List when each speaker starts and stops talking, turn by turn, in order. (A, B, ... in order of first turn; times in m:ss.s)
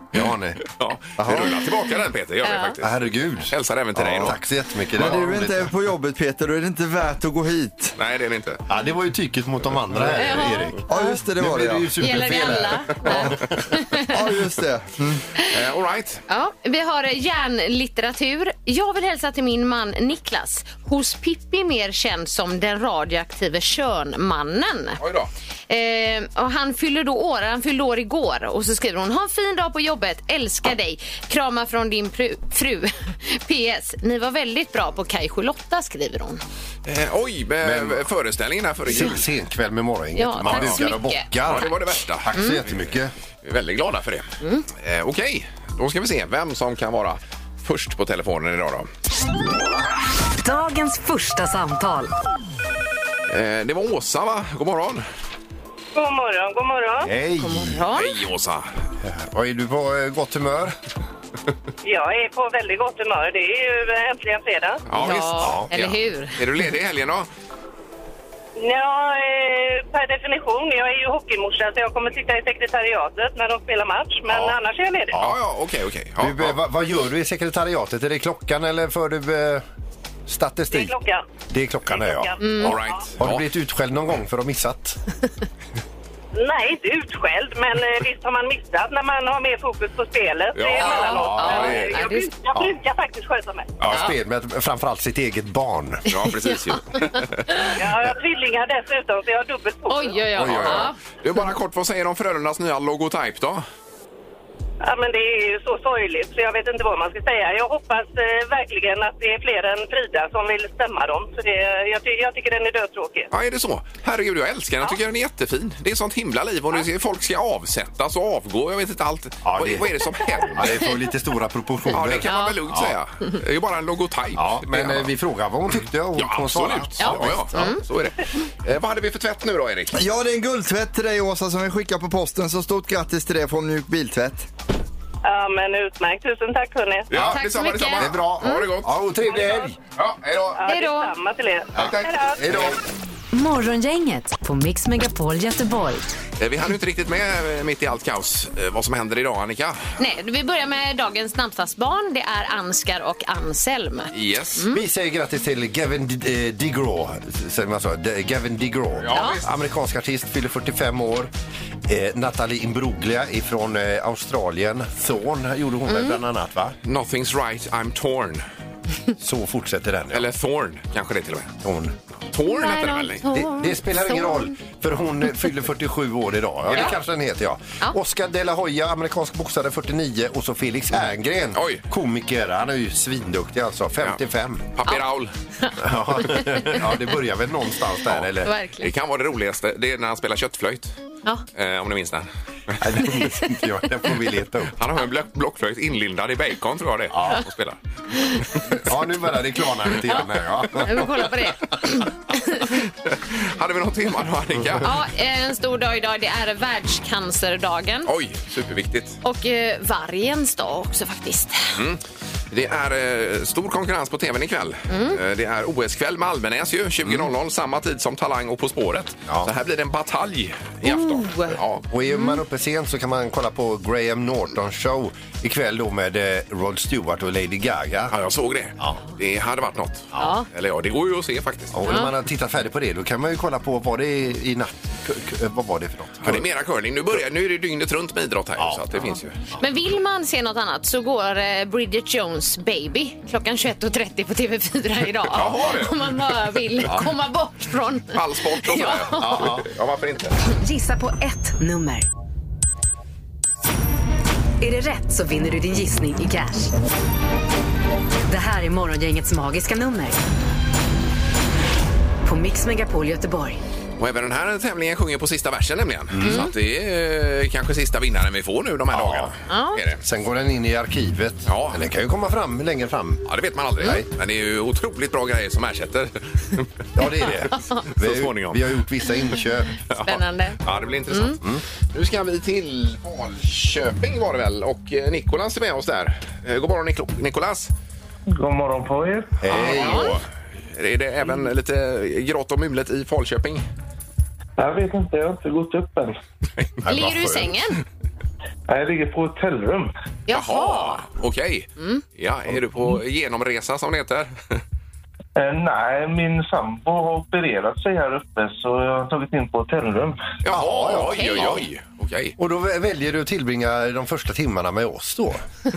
0:00.1-0:00.7 A
0:00.7-0:03.0 B
0:01.2-0:01.6 A
0:02.4-0:02.7 C
0:02.8-0:05.7 A
0:03.5-0:04.4 B
0:04.9-0:07.9 D
0:08.0-0:08.6 B
0:08.7-0:10.8 A
0:10.2-0:11.1 C
0:10.9-0:13.4 D
0:11.4-0:13.6 A
0:12.0-0:14.1 C
0:14.0-0:15.2 D
0:15.4-0:16.2 B
0:16.3-0:25.0 C
0:25.0-0:25.3 B
0:25.7-0:36.4 C
0:36.8-0:39.2 B
0:37.6-0:38.0 A
0:38.8-0:41.8 A
0:40.2-0:41.8 C
0:40.4-0:40.9 B
0:41.4-0:42.8 B
0:42.3-0:43.1 A
0:42.3-0:42.6 C
0:43.4-0:48.9 B
0:50.4-0:52.1 E
0:53.3-0:55.0 B
0:55.9-0:57.1 F
0:57.0-0:57.8 A
0:57.4-0:58.2 C
0:57.9-0:58.6 B
0:59.0-1:00.8 A
1:01.8-1:04.8 F
1:04.9-1:07.3 B
1:05.0-1:06.4 C
1:05.1-1:05.7 A
1:08.6-1:15.2 F
1:14.3-1:14.6 A
1:15.1-1:15.4 A
1:15.1-1:16.6 B
1:16.2-1:19.6 A
1:20.3-1:20.9 A
1:20.7-1:21.2 F
1:21.5-1:25.0 A
1:21.9-1:22.9 F
1:22.4-1:22.8 C
1:22.6-1:23.5 B
1:26.3-1:33.8 F
1:30.5-1:31.9 B
1:30.8-1:32.3 C
1:31.0-1:31.8 A
1:33.8-1:34.1 B
1:33.8-1:36.0 A
1:36.1-1:37.7 B
1:37.8-1:40.8 F
1:39.9-1:41.0 C
1:40.3-1:43.6 B
1:40.4-1:40.9 A
1:44.8-1:53.3 F
1:53.3-2:00.8 B
1:59.4-1:59.9 A
2:00.5-2:03.0 A
2:01.9-2:05.1 B
2:02.2-2:02.6 C
2:04.3-2:07.7 A
2:05.7-2:10.0 B
2:07.0-2:07.8 C
2:09.9-2:14.5 D
2:15.2-2:17.1 F
2:17.1-2:18.9 B
2:17.1-2:17.4 A
2:17.2-2:18.8 C
2:18.0-2:19.8 A
2:20.0-2:20.6 B
2:20.6-2:22.4 F
2:20.7-2:21.1 C
2:21.7-2:22.8 A
2:21.8-2:22.7 B
2:23.3-2:26.2 E
2:26.4-2:29.8 B
2:30.0-2:34.8 C
2:34.1-2:34.6 B
2:34.7-2:41.3 A
2:39.0-2:39.5 B
2:39.1-2:39.4 C
2:41.8-2:46.8 A
2:45.9-2:46.2 C
2:46.8-2:48.4 B
2:49.2-2:50.3 A
2:50.1-2:51.5 B
2:51.6-2:52.0 A
2:52.3-2:53.2 B
2:52.5-2:54.5 C
2:53.3-3:04.7 A
2:56.7-2:57.0 B
3:01.5-3:01.8 B
3:04.7-3:05.3 B
3:05.8-3:08.5 A
3:06.3-3:06.8 C
3:08.4-3:08.9 C
3:08.8-3:10.9 B
3:11.5-3:13.1 B
3:12.8-3:14.7 A
3:14.8-3:17.8 B
3:17.1-3:17.4 A
3:18.2-3:18.4 C
3:18.6-3:21.3 A
3:20.1-3:22.8 C
3:23.0-3:24.9 B
3:24.8-3:28.1 C
3:28.0-3:29.2 B
3:29.2-3:31.8 C
3:31.7-3:41.8 B
3:34.9-3:35.2 C
3:40.8-3:41.6 C
3:41.9-3:48.1 A
3:42.1-3:42.4 C
3:48.1-3:52.0 B
3:50.2-3:50.5 C
3:51.7-3:56.4 A
3:56.2-3:59.4 B
3:58.6-3:59.1 A
3:59.6-4:09.5 C
4:05.3-4:06.1 B
4:06.8-4:07.1 B
4:08.1-4:10.4 B
4:09.2-4:09.7 A
4:10.6-4:12.1 E
4:14.6-4:16.7 E
4:18.3-4:20.2 E
4:22.2-4:23.6 E
4:24.0-4:30.0 B
4:26.1-4:26.5 A
4:26.2-4:26.5 C
4:28.9-4:29.3 A
4:29.5-4:29.8 C
4:30.0-4:33.2 A
4:31.4-4:31.8 B
4:33.3-4:36.7 B
4:33.8-4:34.1 A
4:36.9-4:39.8 A
4:37.5-4:37.8 C
4:37.9-4:38.8 B
4:39.9-4:47.7 B
4:40.0-4:41.4 C
4:48.3-4:49.6 G
4:49.4-4:50.2 A
4:49.5-4:53.7 B
4:49.6-4:50.2 C
4:54.6-4:56.2 G
4:56.8-4:57.5 A
4:56.9-4:57.8 C
4:58.7-4:59.9 G
5:00.3-5:01.0 C
5:00.3-5:04.6 B
5:05.4-5:10.2 G
5:10.4-5:12.4 B
5:10.5-5:11.6 A
5:11.1-5:11.6 C
5:12.4-5:15.4 A